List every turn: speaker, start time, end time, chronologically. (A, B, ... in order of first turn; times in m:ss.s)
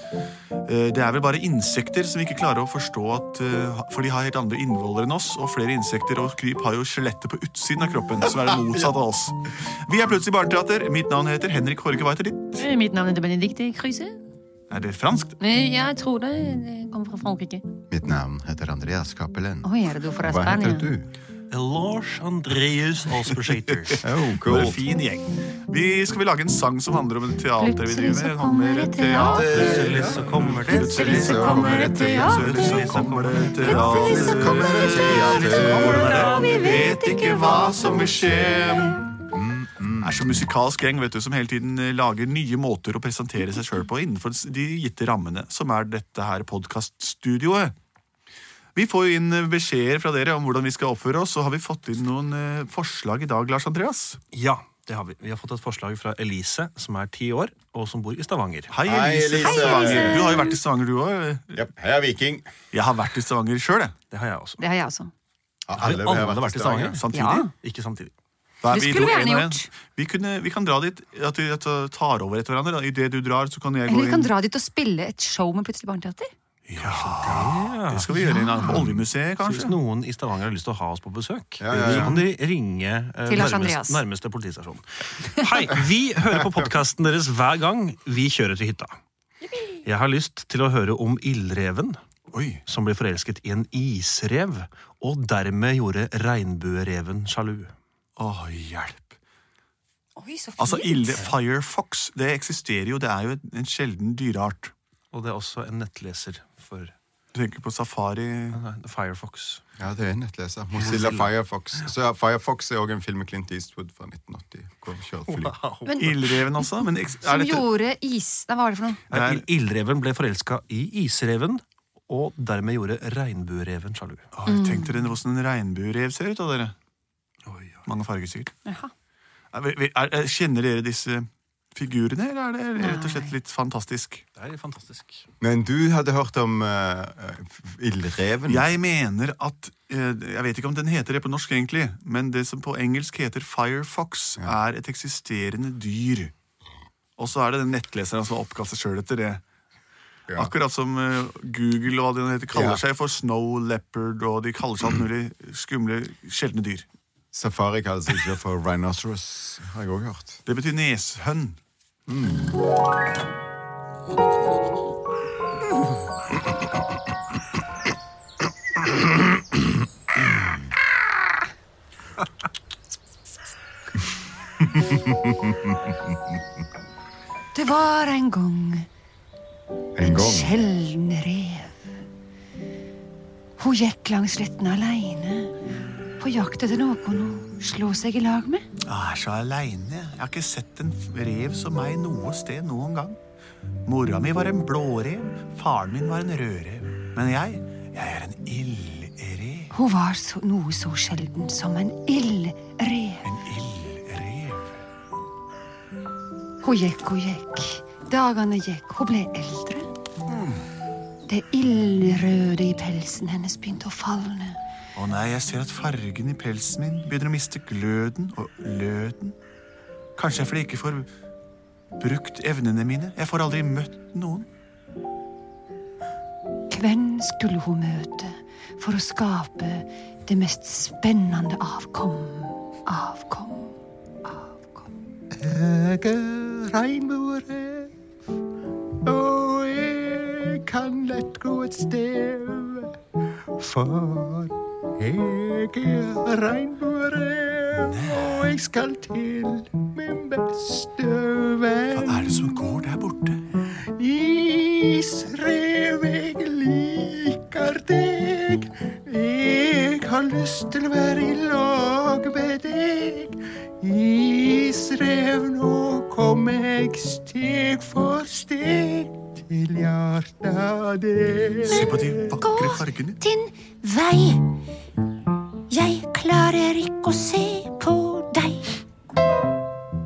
0:00.6-0:12.6 A
0:12.6-0:14.2 B
0:14.7-0:15.4 A
0:15.4-0:17.6 B
0:17.9-0:19.7 C
0:19.6-0:20.9 B
0:20.2-0:21.1 C
0:21.5-0:24.1 D
0:23.3-0:39.1 A
0:24.0-0:24.8 C
0:27.6-0:29.4 B
0:29.2-0:32.1 C
0:29.2-0:37.0 D
0:31.0-0:32.9 B
0:33.6-0:34.6 B
0:33.7-0:36.3 C
0:36.3-0:39.1 B
0:39.3-0:40.2 C
0:40.0-0:47.8 A
0:48.8-0:54.2 A
0:54.3-0:58.7 D
0:58.7-1:01.7 A
0:58.9-1:00.2 C
0:59.5-1:00.6 B
1:01.6-1:02.5 C
1:02.7-1:04.0 A
1:04.1-1:04.7 D
1:04.6-1:05.1 B
1:05.7-1:07.0 C
1:05.7-1:08.1 D
1:06.8-1:07.5 A
1:07.1-1:07.5 B
1:08.6-1:14.3 A
1:08.7-1:09.7 B
1:13.9-1:16.3 B
1:16.7-1:19.8 A
1:16.8-1:29.0 D
1:18.2-1:18.8 B
1:21.6-1:22.2 C
1:23.3-1:24.0 B
1:29.8-1:32.0 D
1:32.3-1:32.6 A
1:32.6-1:37.7 D
1:38.2-1:39.2 A
1:40.2-1:41.3 B
1:40.6-1:44.7 A
1:45.1-1:46.9 D
1:47.3-1:48.6 A
1:48.5-1:49.6 D
1:49.8-1:55.5 C
1:50.7-1:51.3 D
1:55.3-1:56.4 D
1:56.0-1:57.6 A
1:56.6-1:59.0 B
1:59.1-2:04.3 D
1:59.1-1:59.4 A
2:04.3-2:06.8 A
2:04.5-2:05.1 B
2:07.4-2:07.9 D
2:07.8-2:08.5 A
2:08.7-2:08.9 B
2:09.5-2:14.2 A
2:12.8-2:13.3 B
2:14.4-2:15.3 D
2:15.4-2:18.7 C
2:18.5-2:26.3 A
2:27.2-2:29.4 A
2:30.4-2:36.9 A
2:32.5-2:32.8 C
2:37.3-2:40.4 C
2:40.5-2:41.6 A
2:42.1-2:42.5 C
2:54.9-2:55.7 C
2:57.5-2:58.9 B
3:00.0-3:00.5 C
3:00.0-3:01.7 B
3:03.6-3:05.6 B
3:06.2-3:08.7 B
3:08.9-3:13.2 A
3:13.9-3:19.7 A
3:19.7-3:23.3 B
3:23.2-3:24.8 A
3:26.6-3:29.9 B
3:30.3-3:30.7 A
3:31.3-3:34.6 B
3:35.0-3:39.4 A
3:40.2-3:41.1 A
3:42.0-3:44.5 A
3:46.7-3:54.9 B
3:55.4-3:57.9 C
3:59.0-4:02.9 C
4:03.6-4:12.5 C
4:07.8-4:08.6 A
4:11.9-4:13.4 A
4:14.0-4:31.8 C
4:31.6-4:33.2 A
4:31.6-4:34.5 B
4:35.7-4:38.7 B